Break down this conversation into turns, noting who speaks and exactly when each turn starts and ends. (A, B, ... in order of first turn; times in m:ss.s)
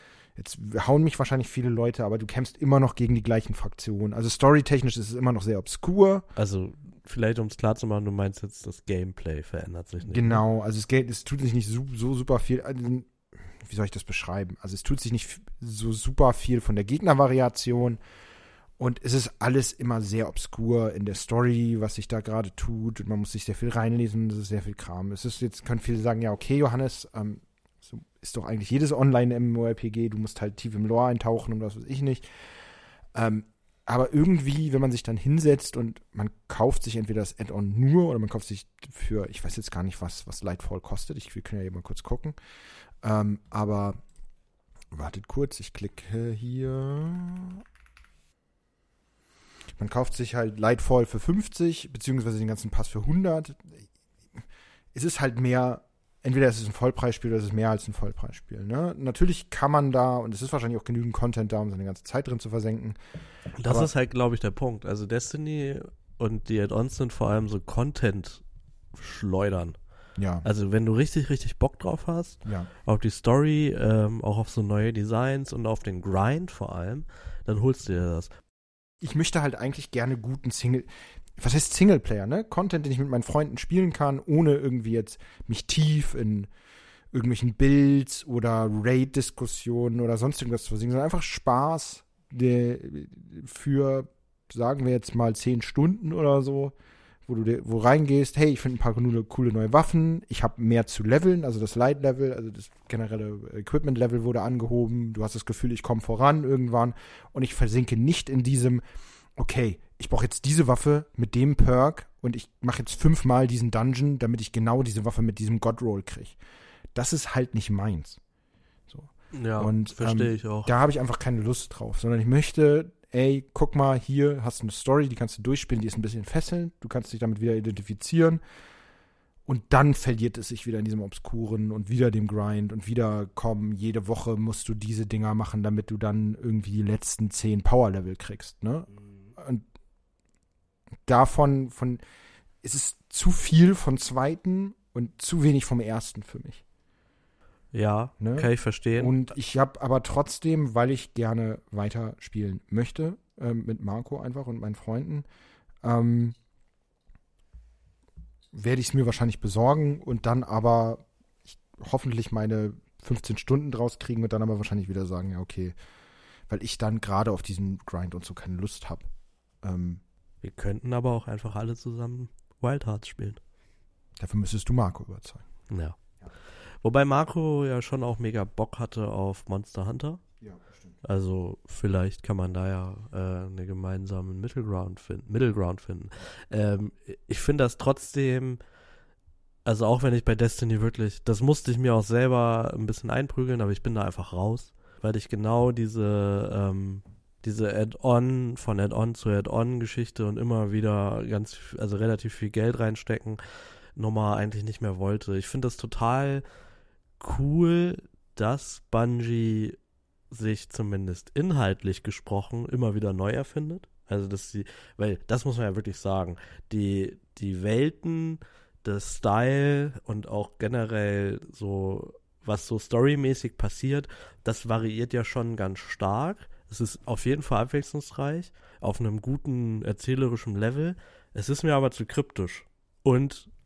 0:00.4-0:06.3 A
0:06.4-0:10.4 B
0:10.0-0:18.0 A
0:18.8-0:32.3 A
0:33.1-0:42.4 A
0:43.0-0:44.0 A
0:44.9-0:47.6 A
0:49.8-0:53.8 A
0:54.9-1:03.0 A
1:03.6-1:08.4 B
1:03.6-1:03.9 A
1:08.9-1:09.8 B
1:10.2-1:10.5 A
1:10.4-1:18.3 B
1:19.0-1:26.5 A
1:27.1-1:36.8 A
1:37.3-1:48.8 A
1:49.4-1:56.4 A
1:56.9-1:58.2 A
1:58.9-2:08.4 A
1:59.3-2:00.7 B
2:09.5-2:19.6 A
2:21.1-2:22.0 A
2:22.6-2:26.6 A
2:27.7-2:29.2 B
2:28.2-2:35.2 A
2:35.8-2:36.4 A
2:38.5-2:45.7 A
2:46.5-2:49.1 A
2:49.6-2:50.0 A
2:50.4-2:53.4 B
2:54.2-2:55.4 A
2:55.7-2:56.0 B
2:56.8-3:00.2 B
3:00.4-3:01.0 A
3:01.0-3:08.6 B
3:09.6-3:23.4 B
3:24.0-3:26.4 B
3:27.2-3:29.8 B
3:30.3-3:53.5 B